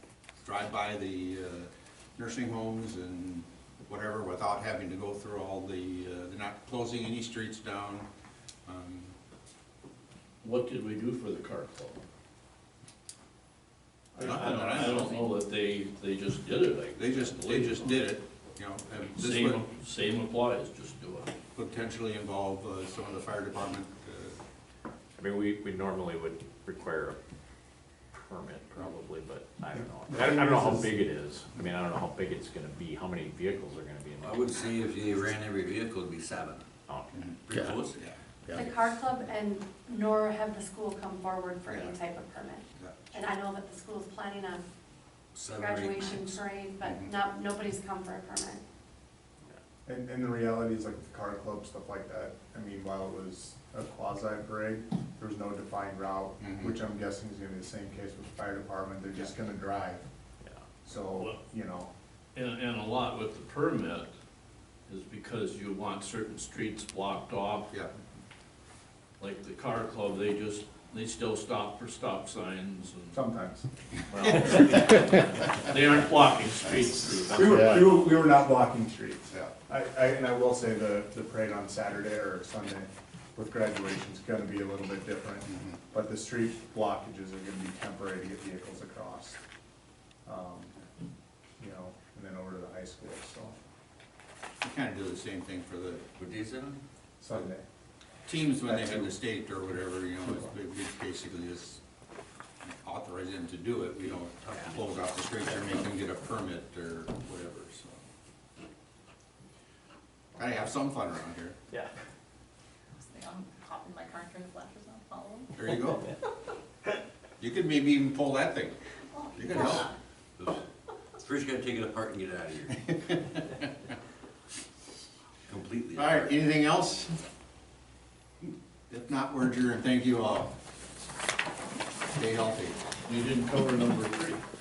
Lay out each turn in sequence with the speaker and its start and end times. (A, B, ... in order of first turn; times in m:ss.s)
0:00.4-0:08.1 A
0:08.7-0:09.2 A
0:10.4-0:12.0 B
0:14.1-0:18.1 B
0:14.2-0:15.3 A
0:17.0-0:19.6 A
0:19.2-0:21.3 B
0:21.6-0:24.4 A
0:25.2-0:27.2 C
0:28.1-0:34.8 C
0:29.7-0:30.9 D
0:34.2-0:36.6 E
0:37.1-0:38.2 A
0:37.5-0:37.9 E
0:38.5-0:44.6 F
0:41.7-0:42.0 A
0:45.4-0:46.2 E
0:45.5-0:48.6 F
0:46.8-0:47.1 A
0:49.9-1:00.0 D
0:56.4-0:56.8 A
1:00.8-1:01.9 D
1:02.4-1:04.1 B
1:04.9-1:07.7 B
1:07.7-1:08.0 A
1:09.2-1:13.2 B
1:13.1-1:13.7 D
1:14.1-1:15.6 A
1:14.3-1:14.5 D
1:14.5-1:14.9 B
1:15.7-1:17.9 B
1:17.3-1:29.4 D
1:25.5-1:25.8 A
1:30.2-1:30.7 D
1:31.6-1:33.6 D
1:34.6-1:36.0 A
1:36.2-1:36.8 E
1:37.2-1:37.6 D
1:38.3-1:41.8 A
1:38.6-1:39.1 D
1:42.6-1:48.0 A
1:50.4-1:51.6 A
1:53.0-1:55.5 G
1:55.6-1:56.1 A
1:57.4-1:58.8 A
1:59.1-1:59.9 G
1:59.4-1:59.9 A
2:01.2-2:02.9 E
2:02.9-2:03.7 A
2:05.5-2:06.3 E
2:06.0-2:07.2 A
2:08.4-2:10.6 A
2:12.1-2:12.8 A
2:13.0-2:14.4 B